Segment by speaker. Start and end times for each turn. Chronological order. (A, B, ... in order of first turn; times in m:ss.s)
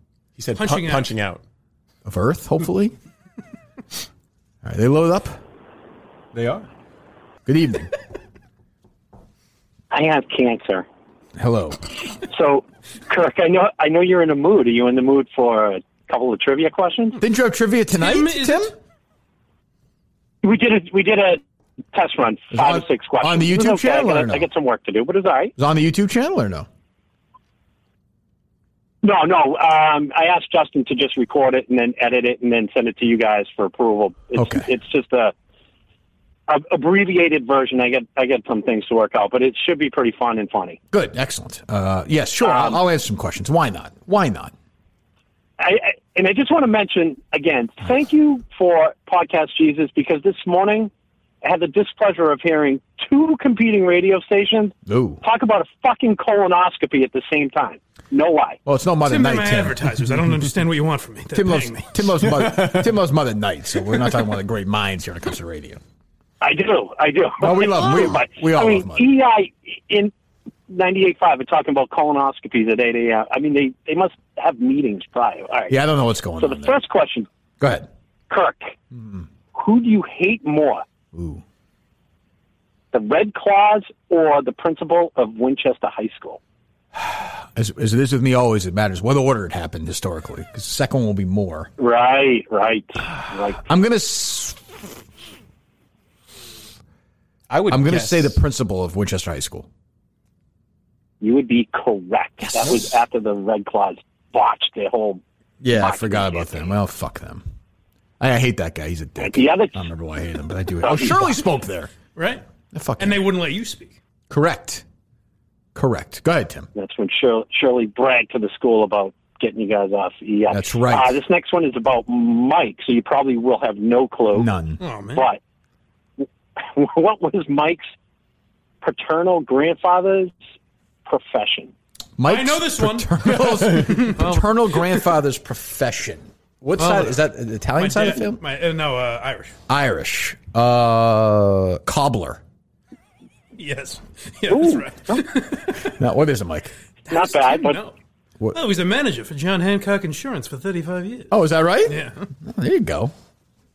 0:00.4-0:01.4 A
0:00.6-0:01.1 B
0:02.0-0:02.9 C
0:04.6-0:05.4 C
0:06.3-0:06.6 A
0:07.4-0:07.9 C
0:09.9-0:10.8 D
0:11.4-0:11.8 C
0:12.3-0:17.2 D
0:17.2-0:18.7 C
0:17.9-0:18.7 B
0:20.4-0:21.4 D
0:21.9-0:25.5 D
0:22.5-0:24.5 C
0:25.6-0:26.7 C
0:29.0-0:35.3 D
0:34.4-0:34.7 C
0:36.5-0:40.8 D
0:40.9-0:44.5 C
0:42.4-0:42.8 D
0:45.6-0:50.9 D
0:51.4-0:58.6 D
0:54.9-0:55.2 C
0:58.6-0:59.9 C
0:59.0-1:01.9 B
1:01.3-1:05.8 C
1:02.4-1:02.8 A
1:06.4-1:10.1 D
1:07.4-1:09.1 C
1:10.7-1:15.8 D
1:15.7-1:16.8 C
1:16.4-1:17.3 D
1:17.6-1:17.9 C
1:18.3-1:18.8 D
1:18.9-1:19.3 C
1:19.5-1:20.8 D
1:21.1-1:21.4 C
1:22.9-1:26.4 D
1:27.0-1:31.7 C
1:31.8-1:33.6 D
1:33.6-1:34.6 C
1:37.5-1:38.4 A
1:37.7-1:39.7 C
1:41.2-1:45.2 D
1:42.4-1:42.9 C
1:45.6-1:47.4 C
1:45.7-1:46.7 D
1:48.2-1:51.9 C
1:49.2-1:49.9 D
1:50.8-1:51.3 D
1:52.1-1:52.4 B
1:52.7-1:53.2 C
1:53.0-1:54.0 B
1:54.3-1:54.8 C
1:55.8-1:56.7 C
1:56.8-2:04.5 D
2:00.5-2:01.1 C
2:04.3-2:04.8 C
2:04.8-2:05.3 B
2:05.1-2:05.4 D
2:06.2-2:07.9 D
2:08.8-2:10.4 D
2:11.1-2:11.7 D
2:12.2-2:18.4 C
2:12.3-2:15.0 B
2:16.8-2:17.2 B
2:17.8-2:19.6 B
2:19.7-2:22.4 C
2:23.6-2:25.9 B
2:25.9-2:26.7 C
2:27.1-2:27.9 B
2:27.1-2:27.8 D
2:28.5-2:31.3 B
2:31.3-2:33.1 C
2:31.9-2:32.3 B